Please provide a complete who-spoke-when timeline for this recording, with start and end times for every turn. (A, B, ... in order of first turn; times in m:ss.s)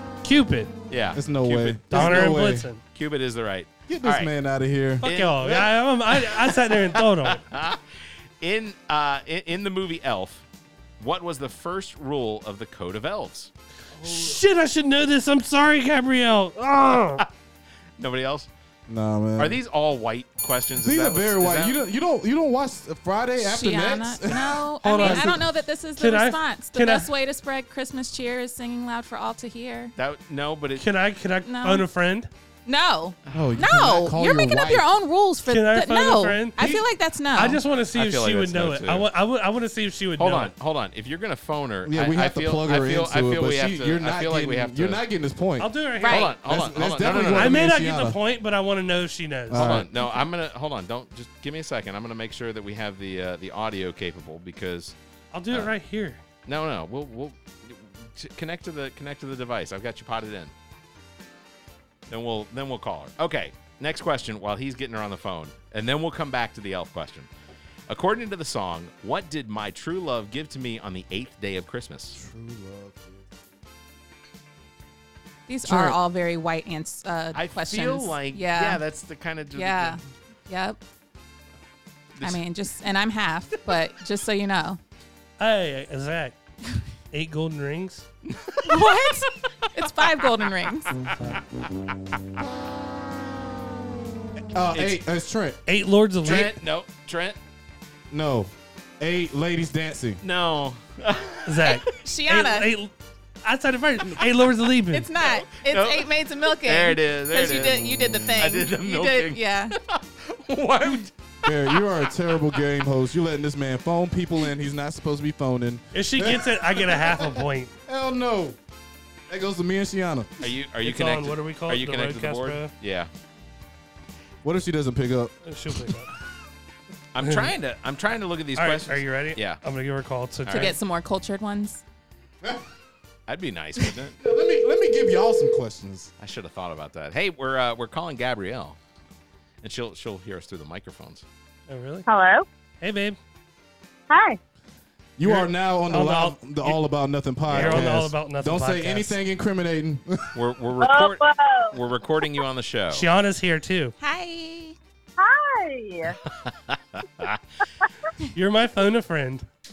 0:00.2-0:00.7 A
0:00.9-0:02.3 B
0:01.1-0:02.7 C
0:01.9-0:02.8 A
0:02.9-0:04.3 B
0:03.9-0:05.0 C
0:05.0-0:07.4 A
0:05.0-0:07.8 B
0:08.4-0:10.4 B
0:11.0-0:13.5 B
0:14.0-0:17.2 A
0:14.0-0:14.4 B
0:18.0-0:18.5 B
0:18.9-0:19.6 C
0:19.4-0:21.8 B
0:20.8-0:25.4 C
0:23.4-0:29.9 D
0:24.8-0:25.4 A
0:26.0-0:27.1 A
0:30.0-0:30.8 B
0:30.8-0:32.3 A
0:31.4-0:31.9 D
0:32.6-0:37.6 D
0:33.2-0:33.6 B
0:33.3-0:34.8 C
0:35.5-0:36.6 A
0:36.6-0:36.8 C
0:37.3-0:40.5 A
0:37.9-0:39.1 B
0:40.2-0:45.0 B
0:41.8-0:45.7 C
0:45.6-0:46.3 A
0:46.0-0:46.3 D
0:46.1-0:47.6 B
0:46.4-0:48.2 C
0:47.0-0:49.7 A
0:49.5-0:49.8 C
0:49.5-0:55.0 B
0:55.3-0:56.2 A
0:56.4-1:00.5 B
1:02.1-1:07.3 B
1:07.9-1:12.2 B
1:12.1-1:13.3 C
1:15.5-1:18.8 D
1:15.6-1:16.0 C
1:17.3-1:20.0 B
1:19.5-1:20.8 D
1:22.2-1:22.4 B
1:22.2-1:24.8 D
1:25.4-1:26.4 A
1:27.1-1:28.0 A
1:28.3-1:29.0 B
1:28.6-1:30.9 D
1:31.1-1:31.4 B
1:34.5-1:35.6 C
1:34.7-1:35.0 B
1:35.6-1:36.6 A
1:36.2-1:37.4 B
1:38.1-1:40.2 C
1:40.2-1:41.8 B
1:41.4-1:45.1 A
1:41.6-1:42.7 D
1:44.9-1:49.8 D
1:45.2-1:51.5 B
1:47.6-1:48.4 C
1:51.4-1:58.6 C
1:55.9-1:57.7 A
1:59.3-2:00.3 C
2:00.4-2:03.1 B
2:00.8-2:02.7 A
2:04.4-2:05.3 C
2:05.4-2:06.1 A
2:07.1-2:09.6 B
2:08.6-2:10.7 A
2:10.4-2:10.7 B
2:10.5-2:11.8 D
2:13.3-2:14.2 B
2:14.2-2:16.1 C
2:16.2-2:18.8 B
2:19.6-2:21.2 B
2:21.7-2:22.0 A
2:22.0-2:22.4 E
2:22.8-2:23.2 A
2:24.1-2:24.4 E
2:25.2-2:30.3 C
2:25.2-2:26.8 A
2:27.5-2:27.9 B
2:27.5-2:29.2 A
2:30.3-2:33.1 B
2:30.8-2:31.8 E
2:32.9-2:33.9 A
2:34.0-2:34.8 D
2:35.2-2:36.2 E
2:36.3-2:37.4 B
2:38.3-2:39.4 A